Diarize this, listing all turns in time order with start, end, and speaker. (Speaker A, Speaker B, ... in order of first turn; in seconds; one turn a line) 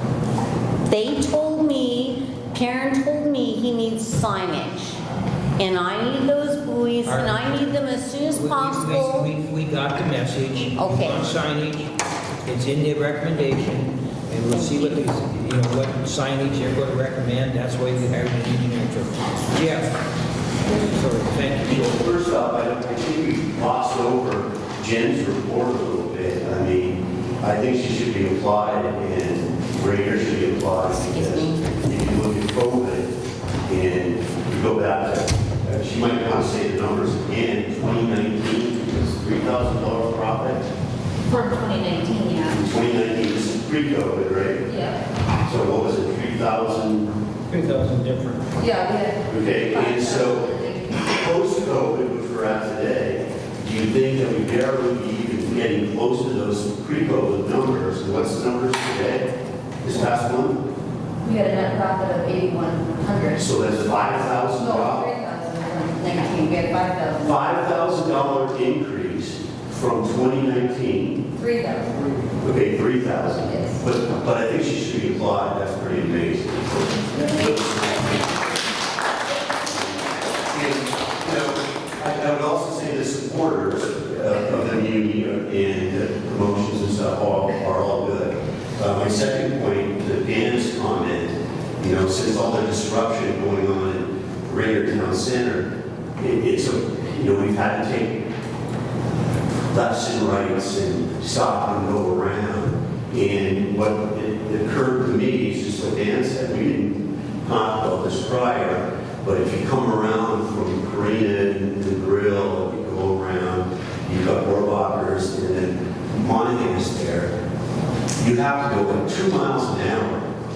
Speaker A: 0.9-5.0
Speaker A: 5.6-9.3
Speaker B: 7.0-11.9
Speaker A: 10.8-11.3
Speaker B: 12.4-20.0
Speaker A: 14.5-15.1
Speaker B: 20.7-22.0
Speaker C: 21.7-33.1
Speaker A: 30.9-31.7
Speaker C: 33.7-40.6
Speaker D: 41.3-42.6
Speaker C: 42.5-44.7
Speaker D: 44.7-45.0
Speaker C: 45.5-47.1
Speaker B: 47.5-48.5
Speaker D: 48.5-51.1
Speaker C: 49.3-59.3
Speaker C: 59.8-60.6
Speaker D: 61.2-63.4
Speaker C: 63.4-65.1
Speaker D: 64.6-67.1
Speaker A: 66.0-67.3
Speaker C: 67.2-71.2
Speaker D: 71.4-72.2
Speaker C: 72.4-78.4
Speaker D: 73.5-73.8
Speaker C: 79.7-98.2
Speaker C: 99.7-117.3
Speaker C: 118.2-120.2